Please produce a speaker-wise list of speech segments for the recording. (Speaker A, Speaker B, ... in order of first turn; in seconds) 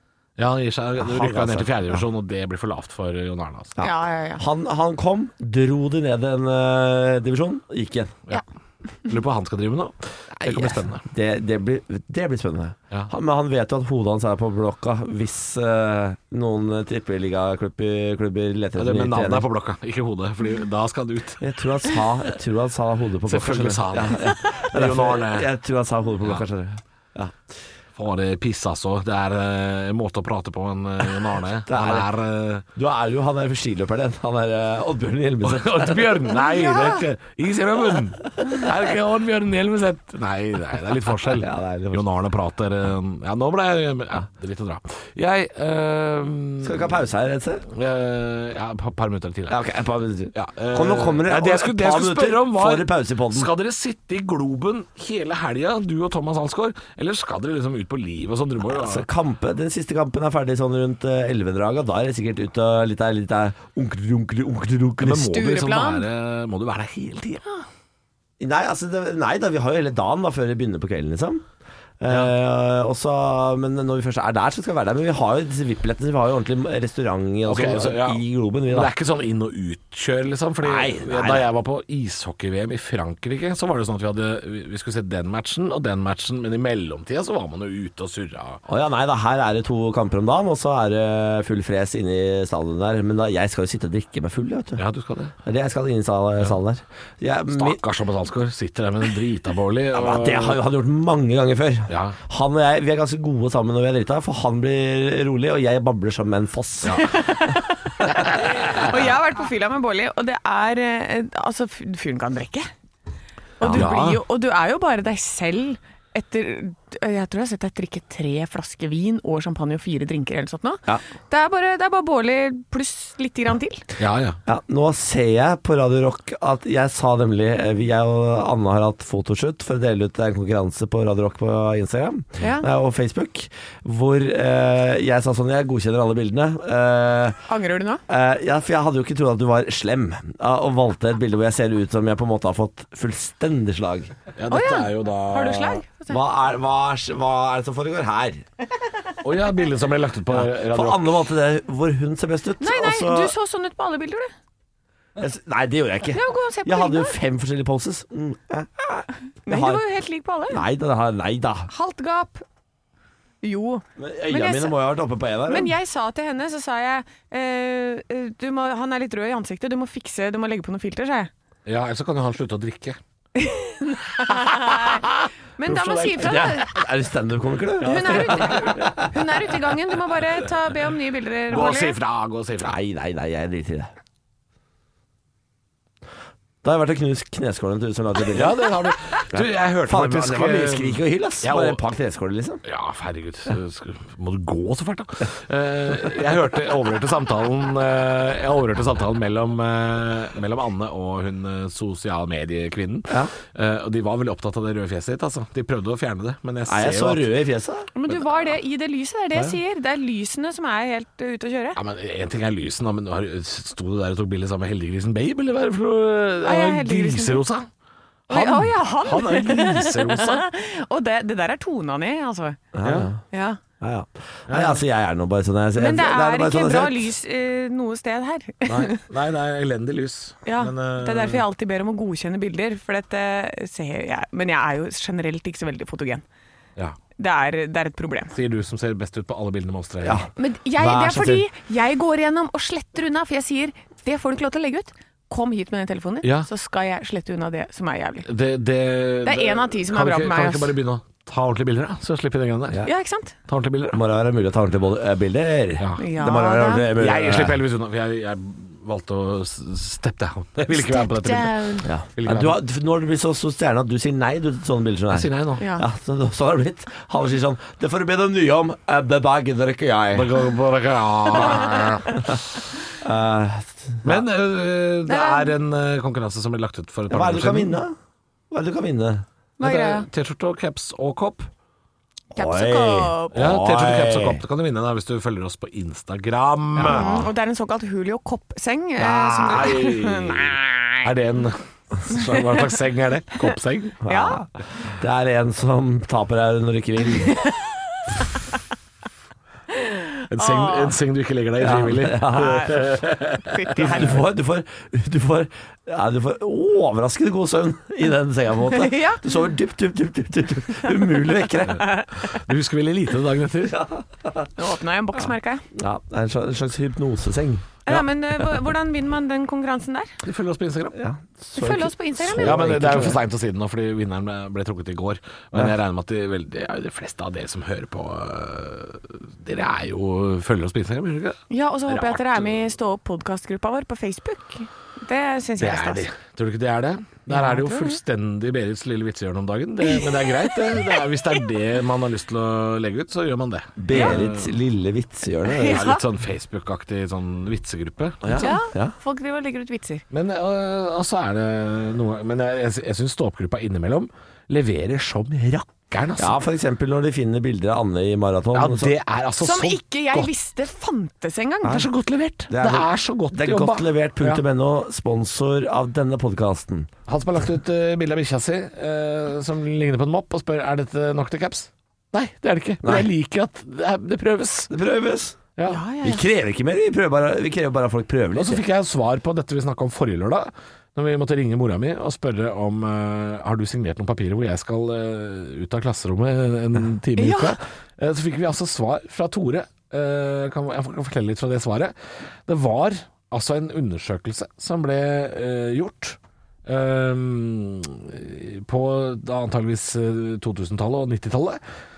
Speaker A: 0.4-3.8, 9.0-11.0, 18.8-21.4, 23.3-25.5, 27.9-32.6, 35.4-46.9, 47.7-49.6, 50.3-59.0, 65.0-67.7, 77.5-88.6, 94.8-95.3, 97.5-100.6, 101.9-102.2, 106.8-107.1, 108.3-108.9, 113.7-114.2, 124.0-124.4, 144.3-145.8, 149.2-151.2, 171.7-173.0, 174.7-175.1, 175.7-176.4, 177.8-178.9, 181.5-182.8, 188.3-191.8, 192.6-207.3, 211.8-217.7, 218.3-220.4, 222.8-223.1, 224.5-224.8, 228.7-231.4, 238.3-240.2, 246.2-246.5, 248.2-252.8, 253.5-254.0, 256.9-262.6, 265.1-265.6, 270.1-272.6, 274.0-277.8, 279.6-281.5, 283.3-287.1, 289.0-294.0, 300.3-304.2, 311.7-313.9, 320.2-321.0, 322.4-332.6, 335.6-344.5, 345.6-348.5, 350.1-356.4, 358.5-360.3, 361.6-364.4, 367.1-374.7, 375.6-375.8, 378.3-391.9, 392.4-401.6
Speaker B: 1.0-2.0, 3.8-8.2, 10.4-19.4, 21.4-27.4, 31.7-32.1, 32.7-36.2, 41.3-42.0, 46.6-47.6, 49.5-53.5, 58.6-65.3, 68.4-71.4, 72.0-78.9, 80.6-81.5, 88.7-94.8, 95.4-97.8, 99.9-107.3, 108.0-108.4, 113.6-113.9, 124.5-137.4, 138.1-144.1, 146.1-148.4, 150.3-153.3, 155.2-159.8, 160.5-161.7, 164.0-165.7, 176.1-179.2, 182.6-183.9, 186.6-188.6, 189.3-192.6, 206.7-207.9, 222.7-223.2, 223.8-227.1, 240.0-241.4, 253.9-257.6, 261.8-270.3, 273.0-274.2, 277.1-277.9, 278.5-279.2, 282.3-284.4, 286.8-287.3, 294.0-297.4, 301.6-302.8, 303.7-311.8, 313.7-314.5, 315.7-317.7, 320.9-323.2, 343.8-345.9, 348.2-348.9, 356.2-358.9, 362.5-366.9, 372.8-373.1, 374.7-375.4, 376.0-378.6
Speaker C: 3.8-4.5, 65.1-66.0, 107.0-112.7, 113.6-124.0, 132.4-132.7, 137.5-138.0, 144.5-146.2, 152.6-154.3, 156.1-157.2, 159.4-160.6, 161.7-162.4, 163.4-164.8, 165.5-171.3, 173.3-176.7, 177.8-181.9, 207.9-211.8, 216.4-217.4, 218.3-222.7, 223.3-223.6, 225.8-229.0, 230.4-236.2, 237.2-238.3, 240.4-248.3, 249.2-250.8, 252.8-253.3, 256.0-256.9, 260.7-261.9, 265.6-265.9, 275.1-275.5, 279.6-280.1, 282.3-283.4, 286.9-291.0, 292.1-292.6, 294.1-294.4, 297.2-298.4, 299.7-301.0, 302.3-302.8, 303.4-304.2, 308.7-309.2, 311.8-312.2, 314.6-315.6, 317.9-320.2, 321.6-323.1, 331.5-336.1, 337.3-338.0, 339.9-341.0, 343.9-344.2, 345.5-346.0, 348.3-350.0, 359.4-361.9, 375.7-376.2, 387.2-387.6